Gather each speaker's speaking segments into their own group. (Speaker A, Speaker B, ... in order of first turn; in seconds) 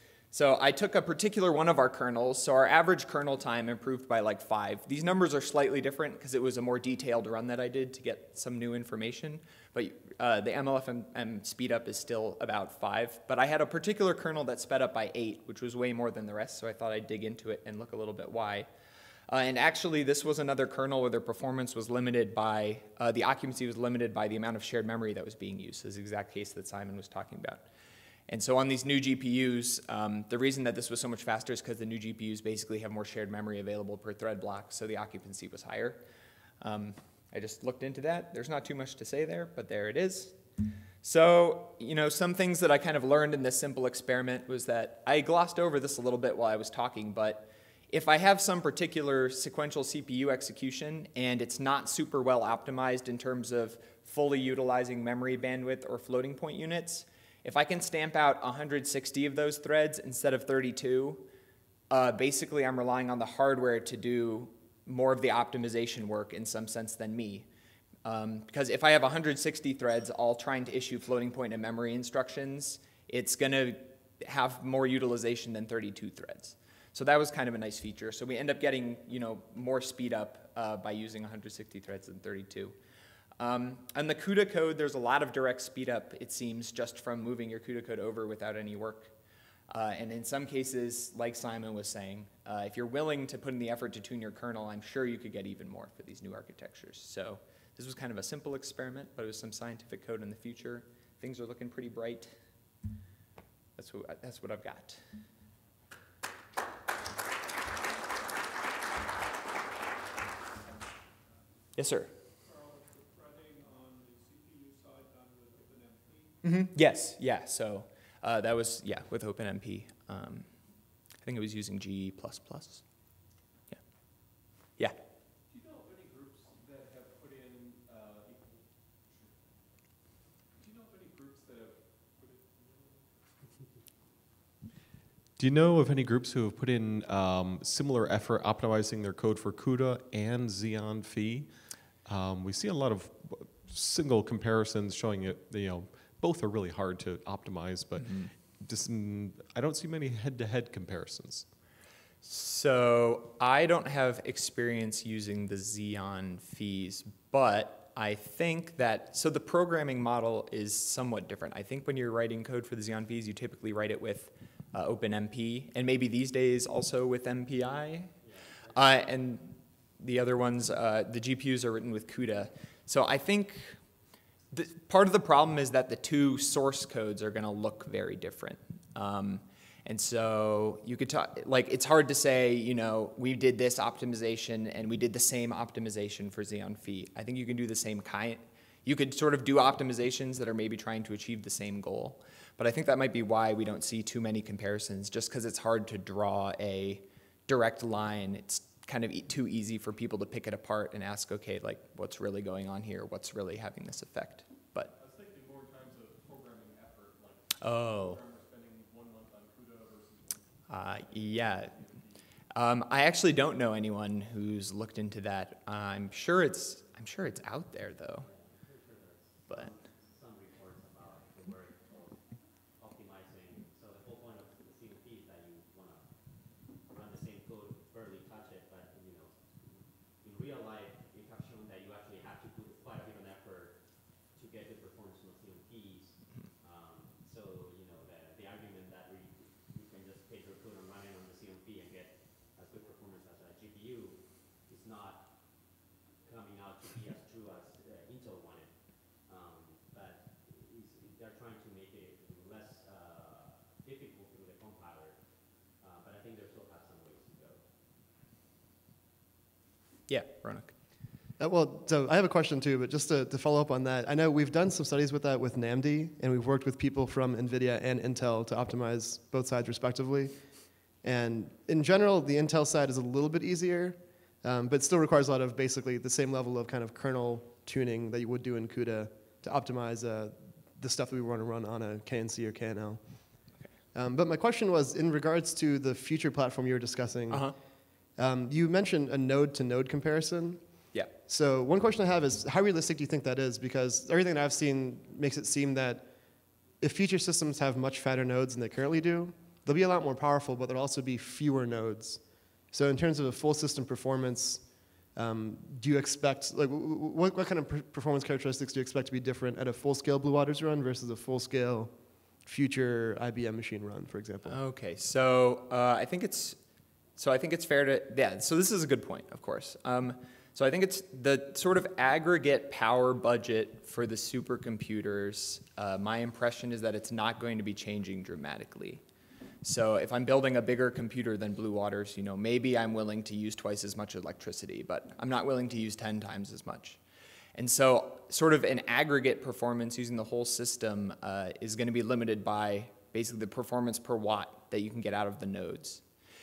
Speaker A: 0.3-18.7, 19.3-27.7, 28.3-36.0, 36.6-40.4, 41.0-61.2, 61.9-67.5, 68.0-82.8, 83.4-89.1, 89.7-102.3, 103.8-105.0, 111.8-112.1, 116.4-120.6, 121.2-122.8, 148.0-148.3, 152.2-168.1, 168.7-173.8, 174.5-204.9, 207.6-208.2, 210.7-211.8, 212.5-218.3, 260.1-260.8, 287.3-287.6, 314.4-316.6, 317.2-329.0, 329.6-337.0, 337.6-346.0
Speaker B: 112.4-116.3, 125.5-133.3, 204.9-212.2
Speaker C: 135.4-151.5
Speaker D: 168.2-169.1, 218.2-255.2, 255.8-257.6
Speaker E: 261.4-287.6, 288.2-296.1, 296.8-314.6